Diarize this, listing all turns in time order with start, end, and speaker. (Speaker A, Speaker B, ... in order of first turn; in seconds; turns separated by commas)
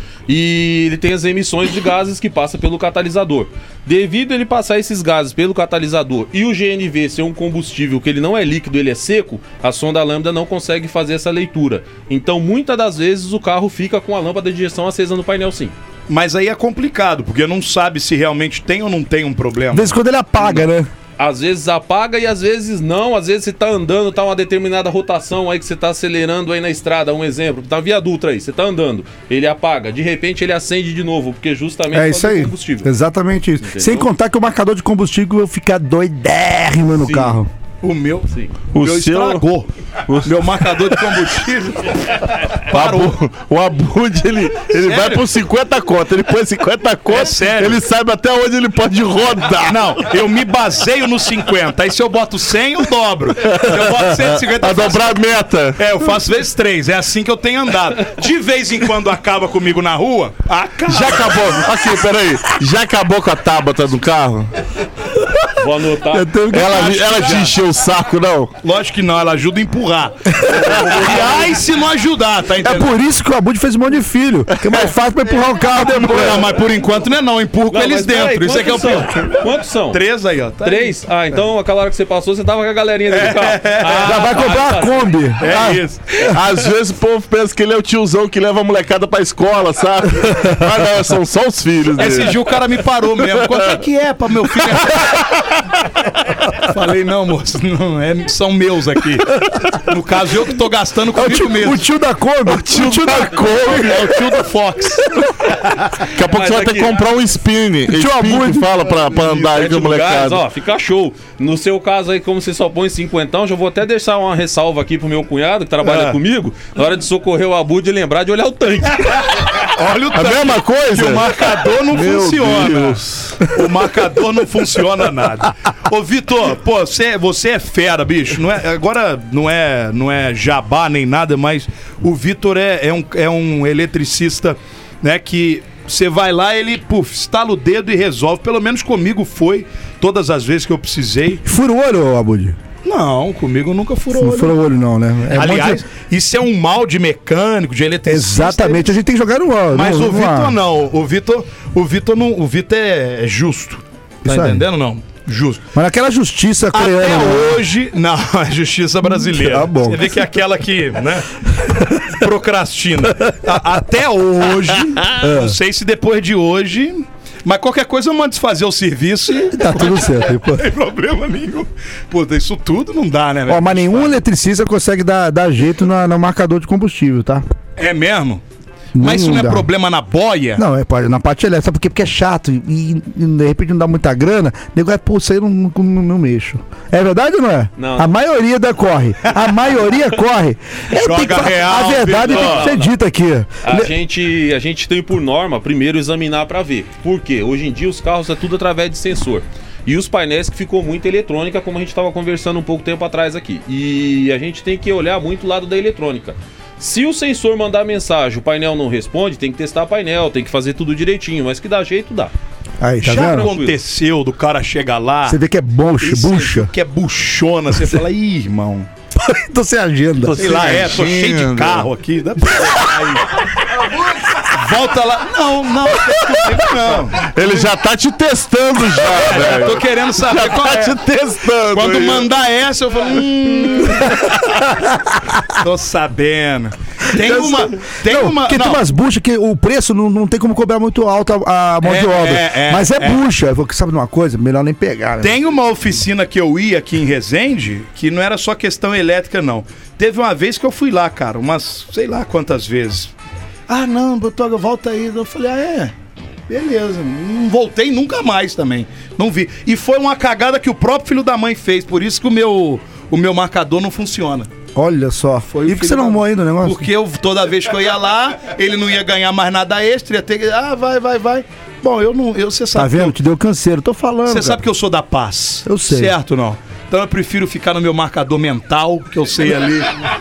Speaker A: 0.3-15.7, Speaker B: 16.1-20.0, Speaker C: 19.7-20.9, Speaker A: 21.2-32.9, Speaker C: 31.9-37.5, Speaker A: 33.6-34.1, Speaker A: 37.0-37.4, Speaker B: 37.8-39.7, Speaker D: 38.7-39.5, Speaker D: 40.1-41.2, Speaker B: 40.2-43.1, Speaker D: 42.7-50.0, Speaker B: 44.8-45.2, Speaker B: 47.1-47.9, Speaker B: 49.7-61.6, Speaker D: 53.5-55.8, Speaker D: 60.9-64.5, Speaker A: 65.6-66.4, Speaker C: 66.1-67.3, Speaker D: 66.5-68.5, Speaker B: 66.6-67.6, Speaker B: 68.6-72.9, Speaker A: 70.8-71.5, Speaker C: 72.6-76.5, Speaker B: 75.8-80.9, Speaker A: 77.7-80.0, Speaker A: 80.6-85.4, Speaker B: 83.1-84.5, Speaker C: 84.0-85.8, Speaker B: 85.4-86.3, Speaker D: 85.5-92.6, Speaker B: 92.0-95.3, Speaker B: 96.7-101.8, Speaker C: 101.1-103.9, Speaker D: 102.5-104.3, Speaker B: 102.9-105.1, Speaker D: 106.1-110.4, Speaker A: 106.2-107.1, Speaker C: 107.9-109.3, Speaker A: 109.4-119.6, Speaker B: 115.8-116.2, Speaker B: 119.6-141.4, Speaker D: 120.1-123.6, Speaker C: 141.4-142.6, Speaker B: 142.8-144.6, Speaker C: 144.1-145.8, Speaker B: 145.3-148.9, Speaker C: 148.1-150.6, Speaker B: 149.7-155.6, Speaker C: 154.2-154.7, Speaker C: 155.8-157.6, Speaker B: 156.7-161.3, Speaker C: 159.1-160.2, Speaker B: 162.1-174.2, Speaker C: 165.2-165.6, Speaker C: 169.5-170.7, Speaker C: 173.5-177.4, Speaker B: 177.8-178.4, Speaker C: 178.9-179.7, Speaker B: 179.0-180.6, Speaker C: 180.6-193.9, Speaker A: 187.8-188.1, Speaker B: 190.9-192.7, Speaker A: 192.1-192.9, Speaker A: 193.6-212.3, Speaker C: 212.8-213.5, Speaker B: 213.0-215.4, Speaker A: 213.1-213.8, Speaker C: 215.2-216.7, Speaker B: 216.0-218.9, Speaker C: 217.7-218.0, Speaker C: 219.1-220.6, Speaker D: 220.2-221.9, Speaker B: 220.4-223.4, Speaker B: 224.5-227.5, Speaker D: 227.2-232.3, Speaker B: 229.0-231.0, Speaker B: 231.7-234.4, Speaker B: 235.6-238.8, Speaker C: 237.2-245.4, Speaker B: 241.8-243.2, Speaker B: 245.2-253.1, Speaker B: 253.7-255.9, Speaker B: 256.5-264.5, Speaker C: 264.8-266.9, Speaker B: 265.5-273.2, Speaker C: 272.7-274.6, Speaker B: 274.3-279.9, Speaker C: 275.7-276.1